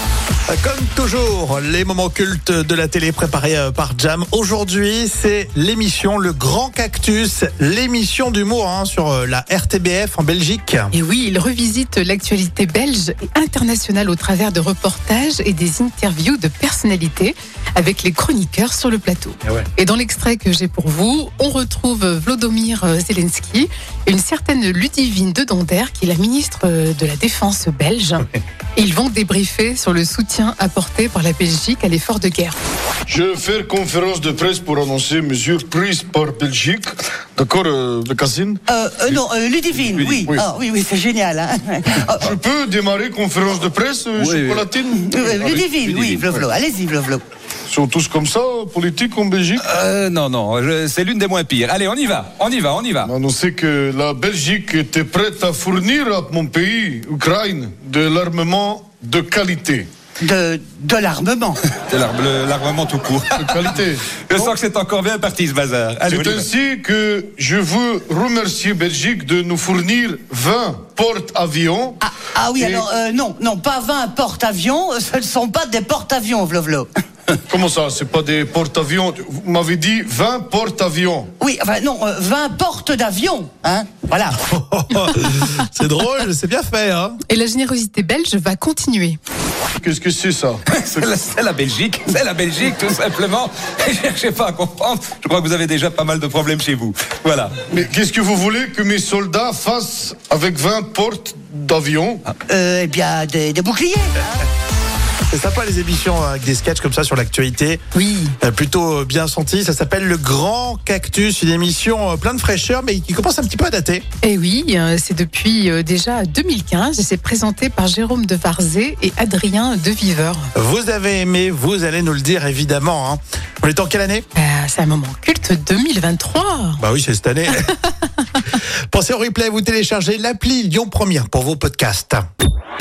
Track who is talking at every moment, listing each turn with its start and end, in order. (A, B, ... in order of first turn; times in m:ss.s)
0:00.5-0:10.9 A
0:10.9-0:32.6 B
0:33.1-0:38.6 C
0:38.7-0:42.3 D
0:39.7-0:40.3 E
0:42.2-0:46.3 C
0:44.2-0:44.7 E
0:44.9-0:47.2 D
0:47.7-0:49.6 C
0:49.6-0:53.1 E
0:53.0-0:59.9 C
1:00.2-1:01.7 D
1:01.9-1:06.5 E
1:03.4-1:04.1 C
1:06.1-1:12.0 C
1:12.0-1:16.9 D
1:12.6-1:12.8 C
1:17.5-1:21.3 C
1:21.4-1:24.4 D
1:24.4-1:27.2 A
1:27.3-1:29.2 B
1:29.8-1:30.6 C
1:30.7-1:37.6 E
1:37.7-1:42.2 C
1:42.5-1:44.4 D
1:45.3-1:47.8 A
1:48.0-1:48.3 B
1:48.4-1:54.0 A
1:54.2-2:00.5 B
2:00.6-2:04.2 A
2:04.4-2:06.8 B
2:06.8-2:07.8 A
2:08.5-2:12.3 A